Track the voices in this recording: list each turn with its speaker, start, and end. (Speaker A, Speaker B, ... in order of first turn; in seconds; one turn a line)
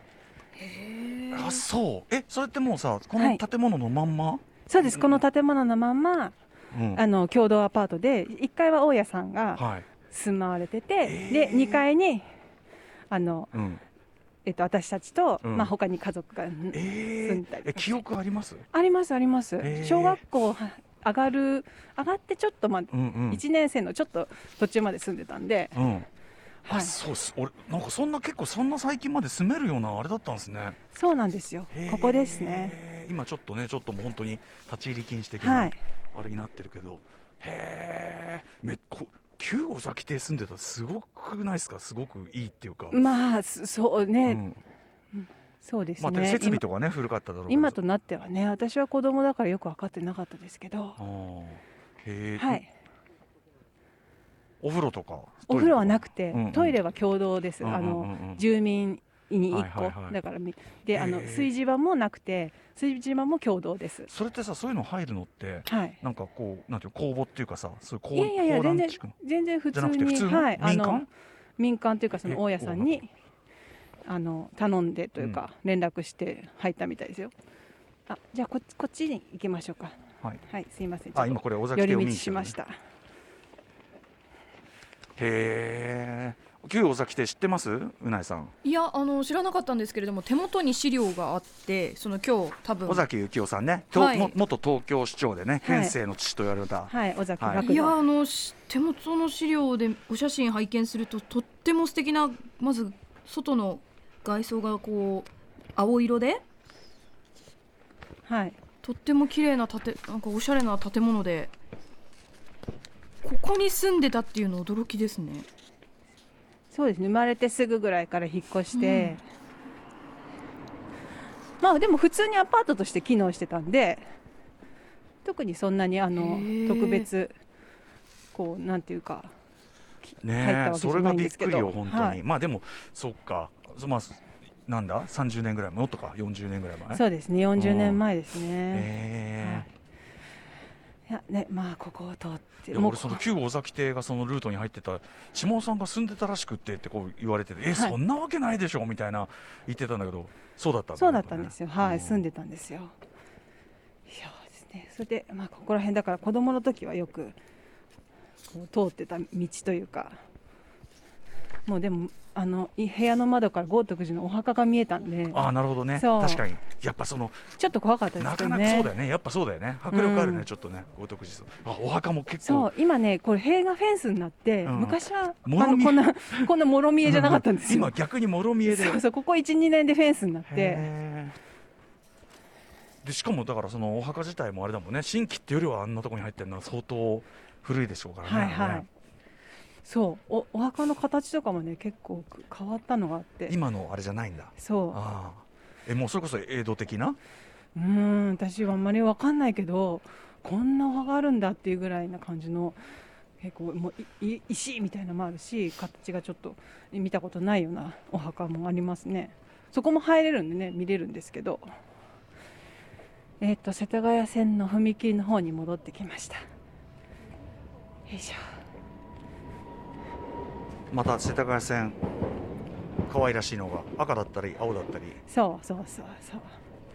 Speaker A: 0.6-1.5
Speaker B: 1.3-5.2
Speaker C: 3.1-3.4
Speaker C: 4.7-6.3
Speaker B: 6.7-7.0
Speaker C: 6.9-12.2
Speaker B: 9.6-9.9
Speaker B: 11.0-11.8
Speaker C: 13.1-13.5
Speaker B: 13.5-13.8
Speaker C: 14.4-18.0
Speaker B: 15.4-15.7
Speaker B: 16.7-18.6
Speaker C: 18.7-25.8
Speaker B: 19.6-20.2
Speaker B: 22.9-23.4
Speaker B: 25.7-26.1
Speaker C: 26.6-26.9
Speaker B: 26.7-30.8
Speaker C: 30.9-32.8
Speaker B: 31.7-43.0
Speaker C: 35.4-35.8
Speaker C: 42.9-44.4
Speaker B: 44.2-44.6
Speaker C: 45.1-46.6
Speaker B: 46.0-47.8
Speaker C: 47.5-51.0
Speaker B: 51.0-52.6
Speaker C: 52.4-52.7
Speaker B: 54.6-56.8
Speaker C: 55.5-64.1
Speaker B: 57.6-58.4
Speaker B: 59.5-60.1
Speaker B: 60.9-61.5
Speaker B: 64.1-69.2
Speaker C: 65.7-66.0
Speaker C: 68.1-71.1
Speaker B: 69.7-71.1
Speaker C: 71.6-73.1
Speaker B: 72.2-73.0
Speaker C: 74.0-77.3
Speaker B: 75.2-75.4
Speaker C: 78.1-82.8
Speaker B: 81.1-82.6
Speaker B: 85.2-88.5
Speaker A: 88.6-93.0
Speaker B: 92.8-97.6
Speaker A: 93.9-94.3
Speaker C: 95.6-95.9
Speaker C: 96.9-98.0
Speaker A: 97.6-106.4
Speaker C: 108.3-108.5
Speaker A: 108.8-111.5
Speaker A: 113.2-115.5
Speaker C: 116.7-119.2
Speaker A: 118.7-119.2
Speaker C: 121.6-124.0
Speaker C: 125.2-127.3
Speaker A: 126.2-127.1
Speaker C: 128.3-129.3
Speaker C: 130.0-132.2
Speaker B: 130.2-137.0
Speaker C: 136.9-138.9
Speaker B: 137.6-138.0
Speaker B: 138.7-139.7
Speaker C: 139.4-139.7
Speaker C: 141.1-143.2
Speaker B: 142.7-152.2
Speaker C: 150.9-152.9
Speaker C: 154.1-157.3
Speaker C: 158.5-160.2
Speaker C: 161.7-166.4
Speaker B: 165.3-167.5
Speaker C: 167.6-168.9
Speaker B: 168.2-172.7
Speaker C: 169.9-170.5
Speaker C: 172.4-177.9
Speaker B: 174.6-176.5
Speaker B: 177.0-179.0
Speaker C: 178.7-180.9
Speaker B: 180.5-181.4
Speaker B: 183.0-188.8
Speaker C: 188.2-188.9
Speaker C: 189.8-193.6
Speaker B: 193.5-197.2
Speaker C: 194.6-195.0
Speaker C: 197.7-202.8
Speaker C: 203.4-211.7
Speaker C: 213.4-216.4
Speaker C: 218.1-218.4
Speaker B: 220.9-222.0
Speaker B: 223.1-225.2
Speaker C: 225.3-226.5